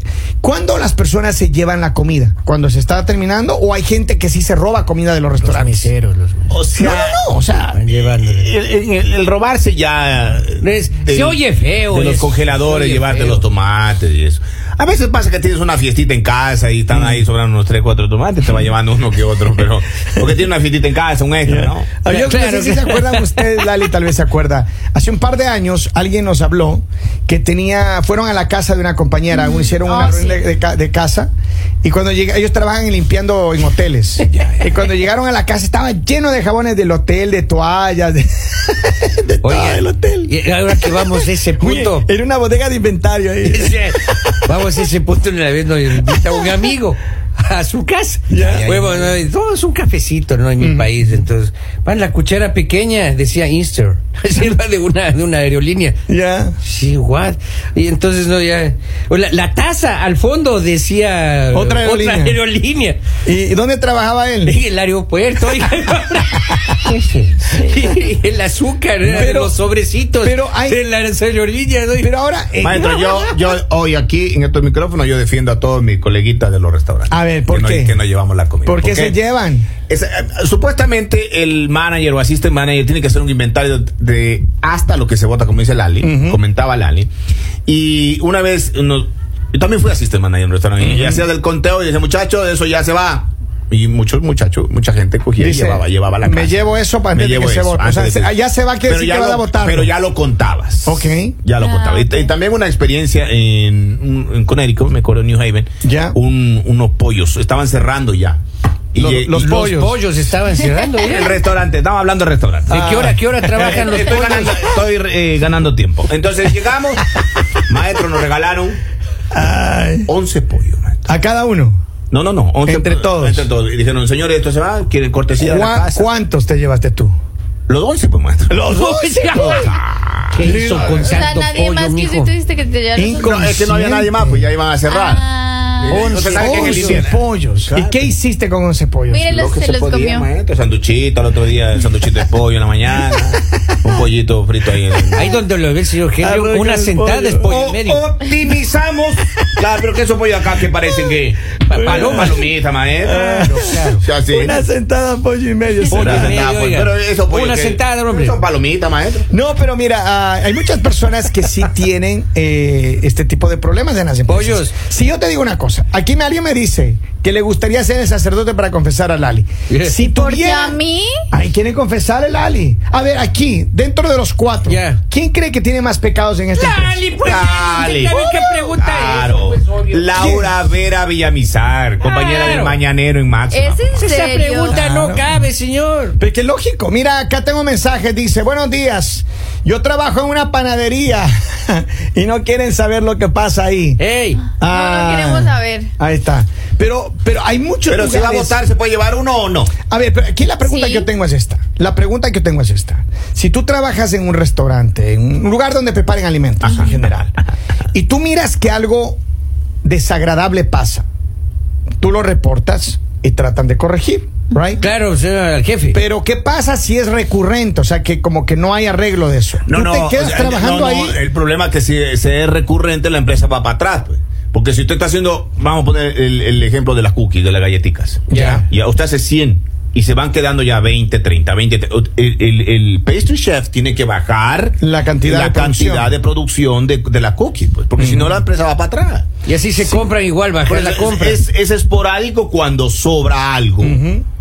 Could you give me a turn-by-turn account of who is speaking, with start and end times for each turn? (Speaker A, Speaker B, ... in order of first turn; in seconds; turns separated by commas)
Speaker A: 0.4-5.9, Speaker B: 5.4-6.5, Speaker C: 6.5-7.2, Speaker A: 6.7-7.8, Speaker B: 7.7-8.5, Speaker C: 8.1-22.0, Speaker B: 10.6-13.4, Speaker A: 16.9-17.2, Speaker A: 21.4-31.3, Speaker B: 22.1-23.6, Speaker D: 29.3-30.4, Speaker A: 31.8-44.5, Speaker B: 39.4-42.1, Speaker B: 43.5-56.0, Speaker A: 46.1-46.4, Speaker A: 48.3-48.7, Speaker C: 48.3-49.2, Speaker A: 50.6-50.9, Speaker A: 56.1-56.6, Speaker B: 56.6-63.0, Speaker A: 61.5-62.4, Speaker A: 63.2-64.6, Speaker B: 64.5-72.1, Speaker A: 69.0-69.6, Speaker A: 70.2-70.8, Speaker A: 72.0-73.3, Speaker C: 72.6-79.2, Speaker A: 77.1-78.0, Speaker A: 78.7-79.7, Speaker C: 79.9-87.1, Speaker A: 86.0-86.4, Speaker C: 87.7-108.4, Speaker A: 90.8-91.2, Speaker A: 95.4-99.9, Speaker A: 100.9-101.4, Speaker D: 101.6-102.3, Speaker A: 105.8-106.2, Speaker C: 108.9-109.5, Speaker A: 109.0-110.0, Speaker B: 109.3-111.4, Speaker C: 111.0-117.1, Speaker B: 112.7-114.5, Speaker A: 112.7-113.8, Speaker C: 117.7-118.8, Speaker A: 119.3-120.1, Speaker C: 120.1-121.1, Speaker A: 121.1-121.8, Speaker C: 122.1-126.1, Speaker A: 122.6-123.5, Speaker A: 125.4-127.2, Speaker C: 127.7-128.6, Speaker A: 128.5-129.7, Speaker B: 128.8-129.6, Speaker C: 129.4-130.8, Speaker B: 130.3-132.3, Speaker A: 130.4-131.2, Speaker D: 131.0-133.4, Speaker A: 133.0-134.5, Speaker C: 133.2-135.2, Speaker D: 134.9-136.3, Speaker C: 135.8-138.1, Speaker B: 135.9-137.0, Speaker A: 136.3-139.3, Speaker D: 139.1-140.3, Speaker C: 139.3-145.4, Speaker B: 145.2-148.0, Speaker A: 146.2-147.4, Speaker C: 147.4-153.2, Speaker B: 151.7-152.3, Speaker A: 151.7-152.5, Speaker A: 153.0-156.4, Speaker B: 153.1-154.0, Speaker C: 154.0-154.6, Speaker B: 155.9-158.4, Speaker C: 155.9-159.3, Speaker A: 159.3-170.8, Speaker B: 164.3-164.8, Speaker B: 169.7-170.0, Speaker D: 170.0-171.2, Speaker A: 171.3-177.0, Speaker B: 174.7-175.0, Speaker B: 176.6-180.3, Speaker C: 177.2-178.2, Speaker D: 178.1-178.7, Speaker C: 178.8-184.1, Speaker A: 180.2-180.5, Speaker B: 182.0-182.8, Speaker D: 183.5-184.8, Speaker B: 184.0-186.2, Speaker A: 184.7-185.4, Speaker A: 186.2-194.0, Speaker B: 194.0-194.5, Speaker A: 194.6-198.6, Speaker D: 194.6-195.9, Speaker C: 197.9-199.7, Speaker A: 199.9-207.4, Speaker D: 200.7-201.1, Speaker C: 206.6-206.9, Speaker A: 207.9-209.2, Speaker A: 209.8-211.1, Speaker A: 212.0-214.9, Speaker B: 214.8-216.0, Speaker A: 215.9-221.2, Speaker C: 219.7-239.3, Speaker B: 228.3-228.6, Speaker A: 228.3-228.7, Speaker A: 234.8-236.1, Speaker A: 238.0-238.4, Speaker B: 239.5-241.4, Speaker C: 240.7-244.0, Speaker A: 243.8-244.2